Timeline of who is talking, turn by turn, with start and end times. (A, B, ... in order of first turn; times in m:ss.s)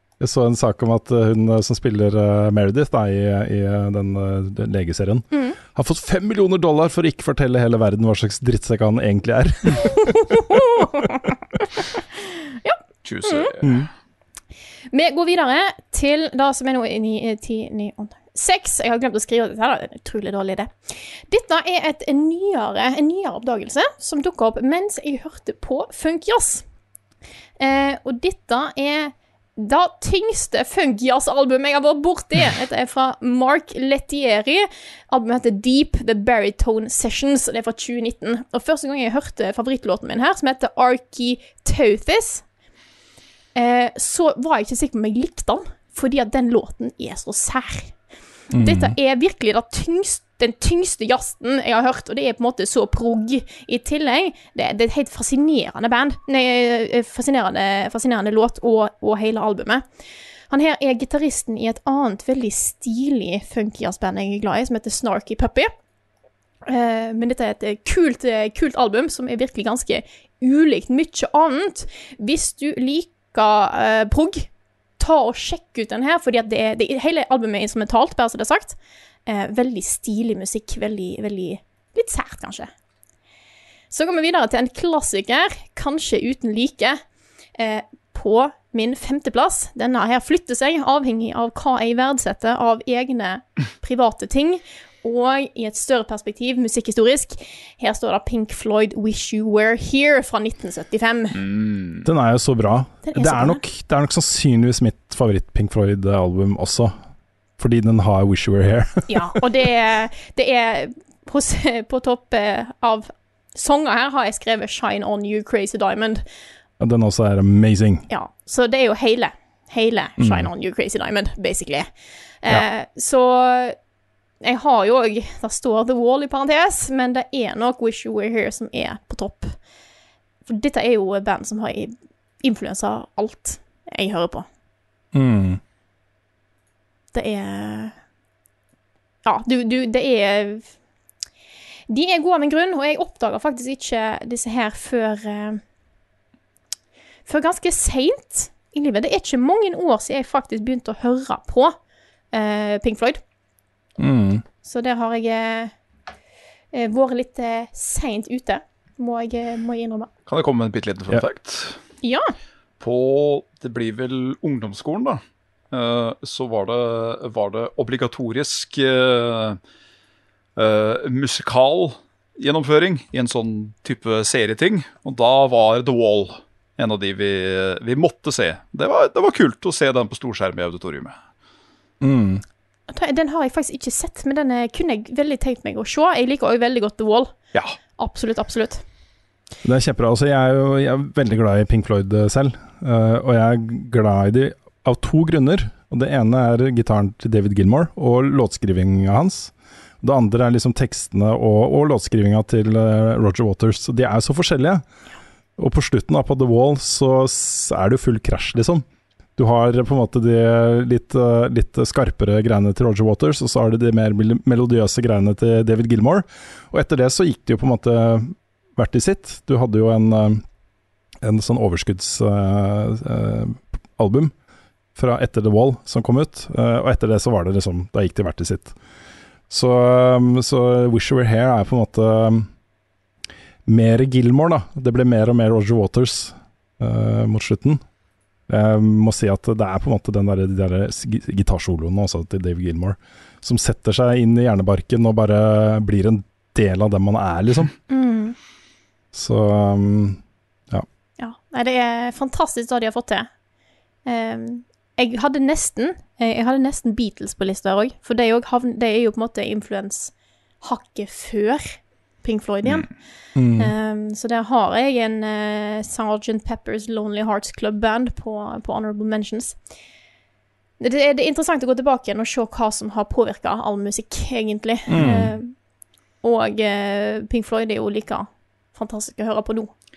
0:00.2-0:10.6 A
0:05.3-0:05.6 B
0:10.2-0:11.2 B
0:12.6-0:13.5 B
0:13.0-0:13.9 C
0:14.9-0:26.6 B
0:27.6-0:42.4 B
0:43.6-0:48.0 B
0:48.5-0:49.0 A
0:48.6-0:59.8 B
1:00.5-1:05.7 B
1:06.7-1:18.8 B
1:19.3-1:22.7 B
1:23.9-1:27.0 B
1:27.6-1:41.4 B
1:41.4-1:42.0 C
1:42.0-1:46.9 A
1:43.0-1:43.6 B
1:47.6-1:49.4 A
1:49.1-1:56.2 B
1:56.8-1:58.1 A
1:58.1-2:01.9 B
2:00.2-2:00.5 A
2:02.4-2:03.8 B
2:04.4-2:09.5 B
2:10.5-2:14.5 B
2:15.1-2:15.6 A
2:17.1-2:18.0 B
2:19.2-2:20.7 B
2:21.9-2:25.6 B
2:27.3-2:31.8 B
2:32.3-2:33.2 B
2:34.0-2:34.4 A
2:34.6-2:35.7 B
2:36.7-2:40.1 B
2:40.3-2:41.8 C
2:42.0-2:42.3 B
2:42.8-2:49.6 C
2:50.6-3:01.2 C
3:02.0-3:02.4 A
3:02.9-3:07.3 B
3:08.0-3:08.8 B
3:09.6-3:24.8 A
3:25.6-3:28.8 A
3:29.4-3:40.4 A
3:41.2-3:44.3 A
3:45.0-3:48.8 A
3:49.5-3:52.5 A
3:53.7-3:57.8 A
3:58.5-4:07.7 A
4:07.9-4:08.4 B
4:09.1-4:10.9 A
4:11.2-4:13.3 B
4:14.1-4:22.9 B
4:23.4-4:23.7 A
4:23.6-4:29.6 B
4:30.8-4:35.5 B
4:34.9-4:35.3 A
4:36.2-4:39.7 B